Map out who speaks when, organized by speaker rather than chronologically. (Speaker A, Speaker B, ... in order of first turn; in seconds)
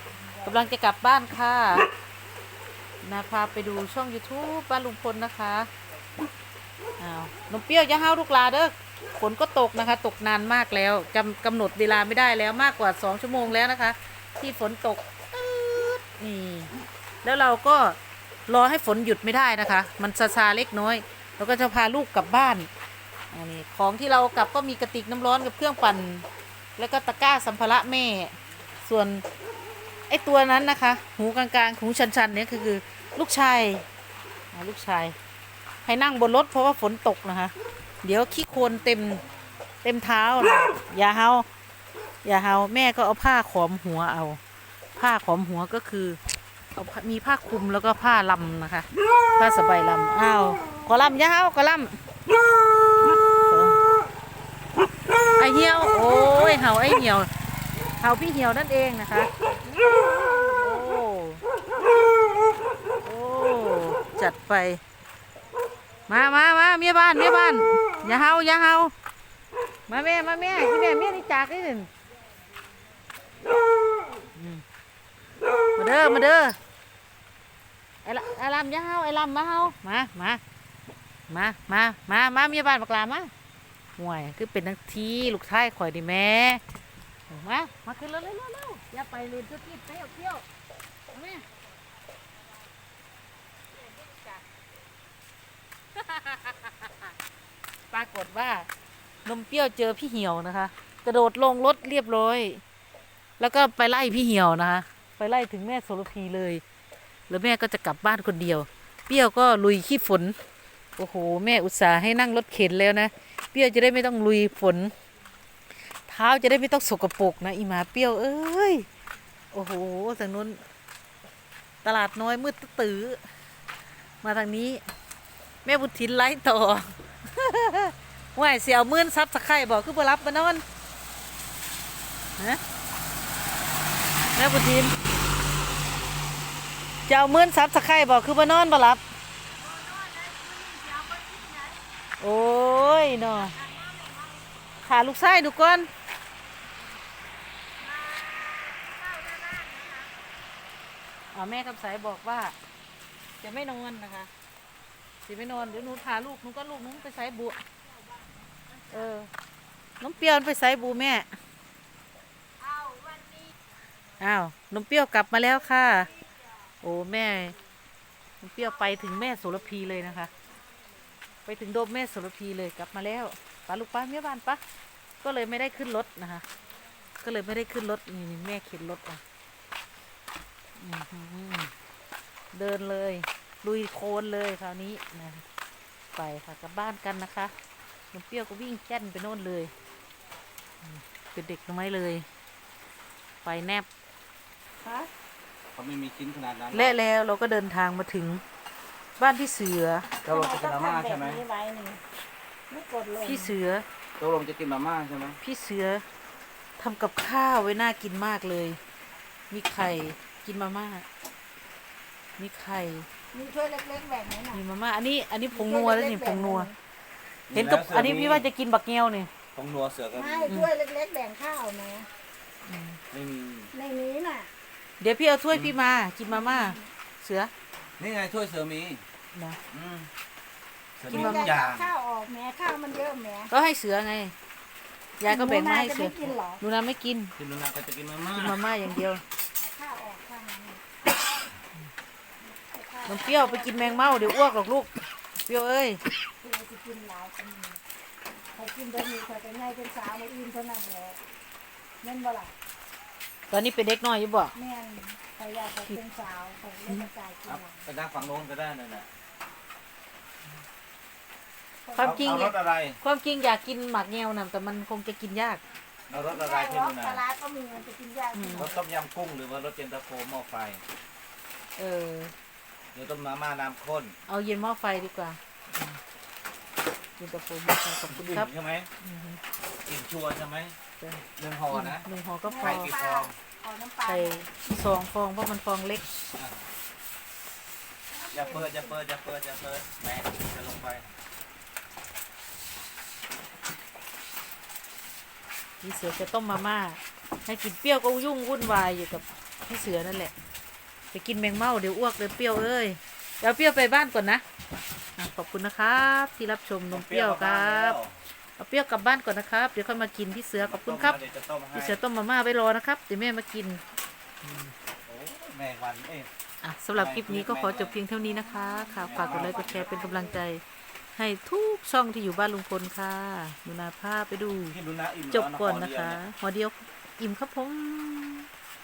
Speaker A: 0.4-1.9, 3.0-5.7, 7.0-16.7, 17.2-22.7, 23.3-26.3, 26.8-29.2, 30.1-33.9, 34.5-35.2, 35.9-39.2, 39.8-41.5, 42.2-44.4, 45.0-46.2, 46.8-52.0, 53.5-53.8, 55.4-57.3, 58.0-59.3, 60.6-61.4, 63.0-64.8, 66.1-68.9, 69.9-71.9, 74.3-74.6, 75.8-76.6, 78.0-80.4, 81.3-83.3, 84.0-86.6, 87.3-89.2, 91.1-91.4, 96.0-97.1, 97.9-98.7, 99.2-102.6, 103.4-106.6, 107.3-110.4, 111.0-114.9, 116.1-118.9, 119.5-120.6, 121.8-123.2, 124.2-124.8, 125.7-130.6, 134.4-134.9, 137.1-139.0, 142.2-143.6, 144.8-145.9, 151.3-152.6, 153.4-154.3, 155.2-157.6, 158.9-159.3, 160.0-161.3, 164.2-166.1, 166.8-167.6, 168.4-170.3, 171.5-174.6, 175.2-176.4, 177.2-179.2, 180.8-181.7, 182.5-185.4, 186.2-187.5, 188.1-189.7, 190.8-192.3, 193.4-193.9, 196.7-198.4, 199.2-200.1, 203.2-203.8, 205.4-206.1, 206.8-208.8, 209.5-211.1, 212.4-213.1, 214.5-216.7, 217.5-219.3, 222.7-223.0, 225.0-227.5, 231.1-231.6, 233.5-234.3, 235.2-237.3, 238.3-239.2, 243.1-246.0, 253.5-254.5, 261.9-265.6, 268.3-268.7, 271.8-272.3, 274.3-276.0, 277.2-279.4, 281.0-282.9, 284.1-286.1, 295.8-300.3, 301.1-304.4, 305.2-308.0, 308.6-311.2, 311.7-313.8, 314.4-314.7, 316.6-320.6, 321.1-324.8, 325.3-328.5
Speaker B: 89.0-90.4, 93.9-94.4, 139.6-141.8, 143.3-144.5, 147.8-150.1, 162.6-163.5, 194.8-195.1, 200.2-202.0, 202.7-203.5, 213.3-214.6, 215.5-216.8, 220.1-222.1, 223.7-224.5, 226.3-226.9, 231.1-233.5, 235.2-236.6, 239.6-240.8, 242.5-244.3, 246.4-247.8, 248.5-251.2, 252.0-252.5, 254.6-257.8, 261.9-262.3, 266.1-268.8, 282.4-284.6, 288.1-289.0, 318.2-320.4
Speaker C: 195.8-197.0, 200.2-201.4, 204.2-205.4, 217.5-218.5, 219.6-220.5, 223.1-223.7, 228.0-229.0, 229.7-230.1, 231.0-231.9, 237.4-238.6, 257.5-259.1, 262.0-263.0, 266.1-267.2, 268.6-270.8, 272.9-274.1, 278.1-278.9, 279.9-280.8, 281.4-282.1, 282.6-283.3, 286.4-286.6, 288.3-291.1, 306.9-308.1, 310.6-312.0, 315.1-316.3, 316.9-318.0, 319.1-319.9, 324.7-326.2